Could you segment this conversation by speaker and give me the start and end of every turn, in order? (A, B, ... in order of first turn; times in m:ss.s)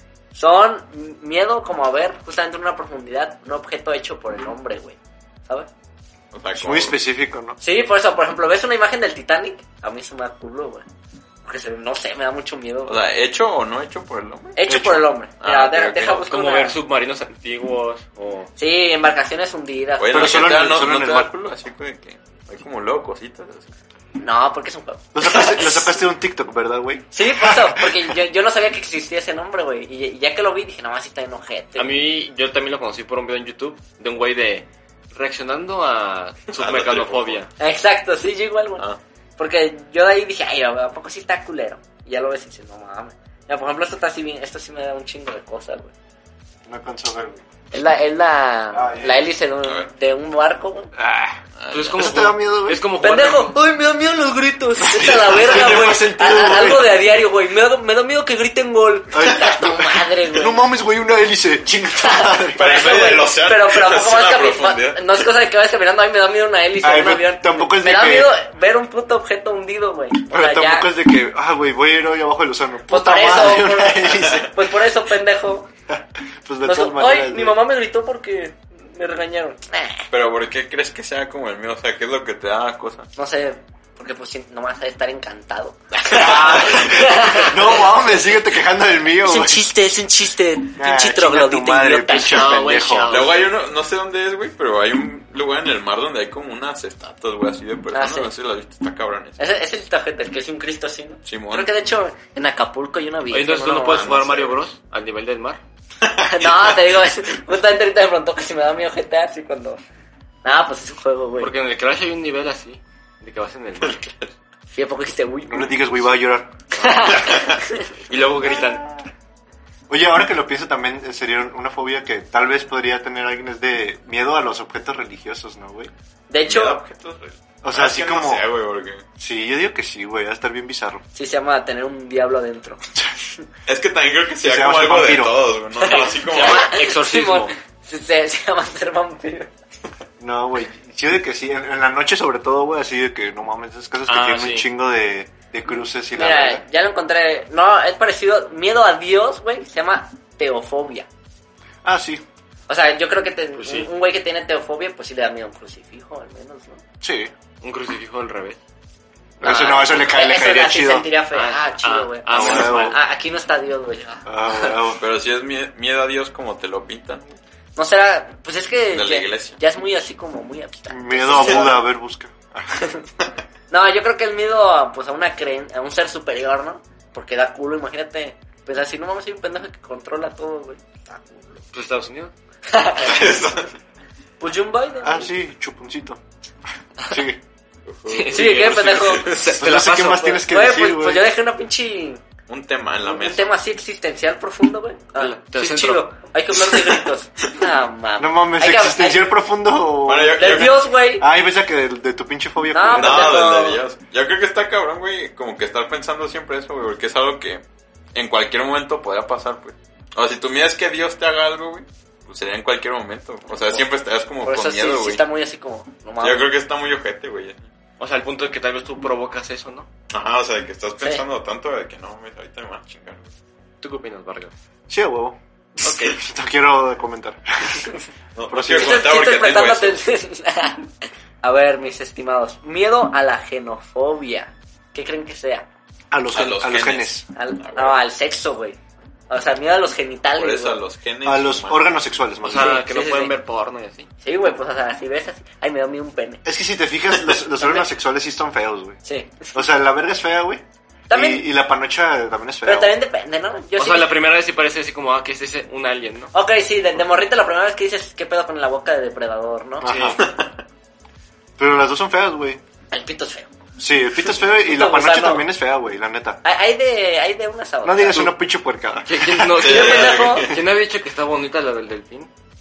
0:00.3-0:05.7 A
0:06.3-0:07.0 B
0:06.6-0:07.6 C
0:07.6-0:10.9 A
0:11.4-0:13.0 A
0:12.9-0:14.6 B
0:14.6-0:16.8 A
0:14.7-0:15.1 C
0:15.4-0:16.2 B
0:16.2-0:18.5 D
0:18.6-0:20.7 A
0:20.0-0:23.7 B
0:20.1-0:21.3 C
0:24.2-0:26.0 A
0:25.1-0:28.1 C
0:27.1-0:31.9 A
0:31.8-0:37.5 D
0:36.5-0:37.4 B
0:37.6-0:38.9 A
0:39.4-0:45.9 A
0:46.7-0:47.4 C
0:47.7-0:50.9 A
0:48.7-0:49.3 C
0:49.6-0:49.9 B
0:51.0-0:51.4 C
0:51.6-0:52.2 B
0:51.7-0:53.6 D
0:51.9-0:52.8 C
0:53.0-1:00.6 A
0:54.8-0:57.1 C
0:55.5-0:55.9 B
0:59.1-1:03.0 C
1:02.0-1:10.9 A
1:02.6-1:05.3 B
1:06.8-1:08.3 C
1:10.3-1:14.6 C
1:12.9-1:15.7 A
1:15.9-1:17.6 C
1:16.6-1:20.1 A
1:20.1-1:23.1 B
1:23.2-1:27.9 A
1:26.1-1:29.7 C
1:26.1-1:27.0 B
1:29.2-1:32.7 A
1:30.8-1:33.3 C
1:32.1-1:33.6 D
1:33.1-1:39.5 B
1:37.9-1:38.3 A
1:39.4-1:44.1 A
1:41.3-1:41.7 B
1:43.3-1:45.6 D
1:43.8-1:44.6 B
1:46.0-1:47.0 B
1:46.2-1:49.8 A
1:50.4-1:51.5 A
1:51.4-1:54.1 D
1:53.8-1:54.3 B
1:54.7-1:55.9 A
1:55.5-1:57.0 C
1:56.7-1:57.9 A
1:57.1-1:57.6 B
1:58.1-1:58.8 D
1:58.4-1:59.0 C
1:59.9-2:05.9 C
2:06.3-2:06.8 A
2:06.4-2:09.0 B
2:07.6-2:08.5 C
2:09.2-2:11.0 C
2:11.2-2:12.8 A
2:13.7-2:16.7 B
2:14.4-2:15.6 C
2:15.8-2:19.5 A
2:15.9-2:17.5 D
2:20.2-2:26.6 C
2:24.1-2:24.7 D
2:26.1-2:31.1 A
2:31.8-2:32.2 C
2:32.7-2:36.8 A
2:33.6-2:33.9 D
2:37.0-2:37.3 C
2:37.6-2:38.6 D
2:39.4-2:41.1 C
2:39.4-2:44.2 A
2:41.3-2:43.0 D
2:42.3-2:43.0 C
2:44.2-2:45.0 C
2:45.0-2:47.3 B
2:47.8-2:51.9 A
2:48.9-2:49.6 B
2:50.9-2:52.8 C
2:51.3-2:51.6 B
2:52.8-2:53.0 A
2:53.7-3:01.6 A
3:01.7-3:02.3 D
3:02.7-3:03.4 A
3:03.0-3:03.7 B
3:04.4-3:05.3 A
3:05.0-3:06.2 C
3:07.1-3:07.4 C
3:07.9-3:09.4 B
3:08.1-3:10.4 D
3:08.3-3:09.4 A
3:09.6-3:11.3 C
3:10.4-3:12.2 A
3:12.5-3:13.5 B
3:13.1-3:19.2 A
3:15.2-3:16.1 D
3:18.2-3:23.4 C
3:20.0-3:20.9 B
3:20.4-3:21.3 A
3:22.7-3:23.8 A
3:23.0-3:35.2 B
3:34.4-3:36.5 A
3:36.2-3:37.7 B
3:38.0-3:39.9 D
3:40.1-3:43.3 B
3:43.8-3:44.5 D
3:44.9-3:48.0 C
3:45.8-3:46.2 D
3:48.4-3:50.0 B
3:48.5-3:49.1 C
3:48.7-3:55.7 A
3:56.1-3:57.3 C
3:56.3-3:58.0 B
3:57.4-3:58.8 A
3:59.3-4:00.8 A
4:00.4-4:02.0 B
4:01.2-4:02.8 C
4:02.4-4:04.1 D
4:02.5-4:03.3 A
4:04.2-4:06.4 A
4:06.4-4:09.0 C
4:07.6-4:07.9 A
4:09.0-4:09.5 A
4:09.5-4:12.9 C
4:11.1-4:11.5 A
4:12.6-4:14.1 A
4:13.8-4:16.3 D
4:16.3-4:20.0 A
4:19.8-4:20.2 C
4:19.8-4:20.2 D
4:20.2-4:20.6 B
4:21.6-4:22.6 C
4:22.9-4:23.5 A
4:23.8-4:26.4 C
4:24.5-4:25.5 A
4:26.4-4:28.3 A
4:27.8-4:29.7 C
4:29.1-4:32.3 D
4:29.6-4:30.6 B
4:29.6-4:30.5 A